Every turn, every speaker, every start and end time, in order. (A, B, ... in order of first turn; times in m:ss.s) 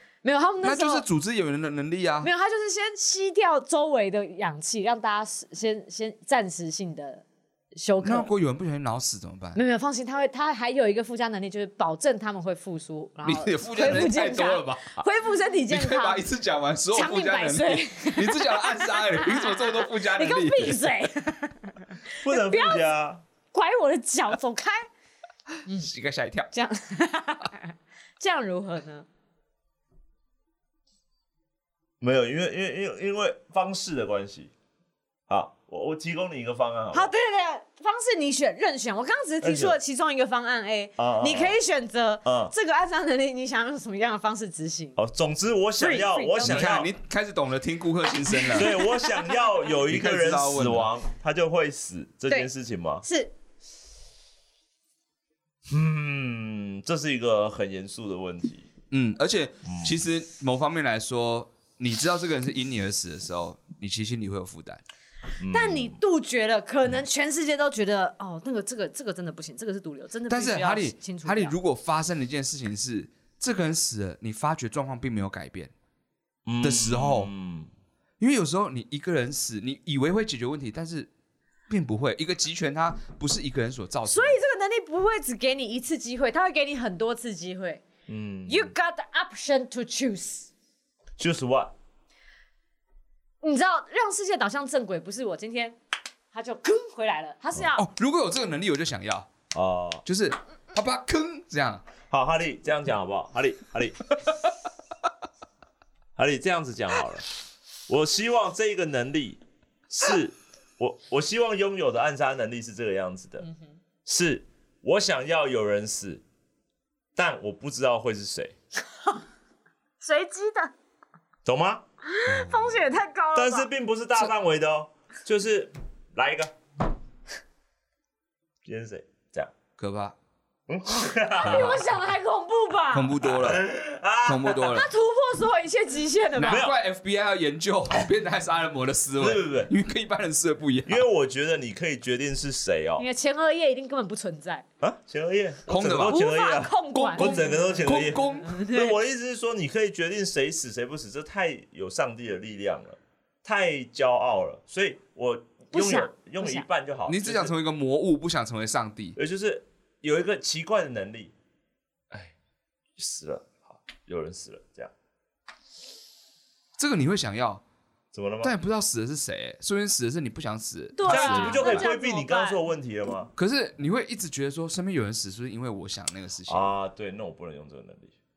0:00.2-0:01.0 A
0:00.6-0:02.3 B
0:02.2-0:08.3 A
0:08.0-0:09.6 B
0:09.6-0:16.2 A
0:13.2-0:15.0 B
0:15.7-0:20.9 B
0:16.9-0:22.9 A
0:22.2-0:23.2 C
0:23.5-0:24.9 A
0:25.8-0:26.5 B
0:26.5-0:29.1 A
0:32.0-0:34.5 C
0:35.3-0:37.1 C
0:36.9-0:45.0 A
0:39.4-0:39.8 C
0:41.0-0:41.6 C
0:42.2-0:42.5 C
0:45.0-0:46.9 C
0:45.8-0:46.7 A
0:46.4-0:48.8 B
0:48.3-0:49.3 A
0:48.5-0:53.0 C
0:49.9-0:50.9 B
0:53.0-0:53.3 A
0:55.7-0:58.7 C
0:58.9-1:04.8 B
0:59.7-0:59.9 C
1:05.4-1:06.0 C
1:05.5-1:11.6 A
1:10.3-1:15.7 B
1:16.5-1:17.7 C
1:16.6-1:17.3 B
1:18.2-1:21.1 B
1:21.7-1:24.4 B
1:24.1-1:27.8 A
1:28.1-1:28.7 C
1:28.5-1:30.5 A
1:31.2-1:31.7 C
1:33.4-1:35.8 A
1:36.3-1:37.9 A
1:37.8-1:39.3 B
1:39.5-1:40.0 C
1:40.1-1:41.8 B
1:42.1-1:44.0 C
1:46.2-1:47.3 C
1:47.9-1:53.5 C
1:54.0-1:56.2 C
1:57.2-1:58.5 C
2:00.0-2:00.7 A
2:01.4-2:01.8 C
2:02.0-2:03.7 A
2:02.3-2:02.8 B
2:03.4-2:06.5 C
2:08.6-2:09.5 C
2:09.8-2:10.2 B
2:10.7-2:11.8 C
2:11.4-2:13.2 A
2:11.4-2:11.8 B
2:12.9-2:13.7 B
2:13.2-2:14.8 C
2:14.2-2:14.9 B
2:14.7-2:16.7 A
2:16.4-2:21.0 B
2:16.4-2:16.8 C
2:19.2-2:19.7 C
2:20.9-2:23.1 C
2:23.0-2:24.6 A
2:24.8-2:37.5 C
2:25.7-2:26.2 B
2:26.0-2:29.0 A
2:26.9-2:28.6 B
2:35.7-2:36.6 A
2:37.1-2:39.2 B
2:39.2-2:41.3 C
2:43.0-2:44.9 C
2:46.8-2:47.6 B
2:48.1-2:48.5 C
2:48.4-2:51.8 B
2:51.0-2:52.6 A
2:51.1-2:53.3 C
2:53.4-2:56.7 B
2:56.5-2:58.1 C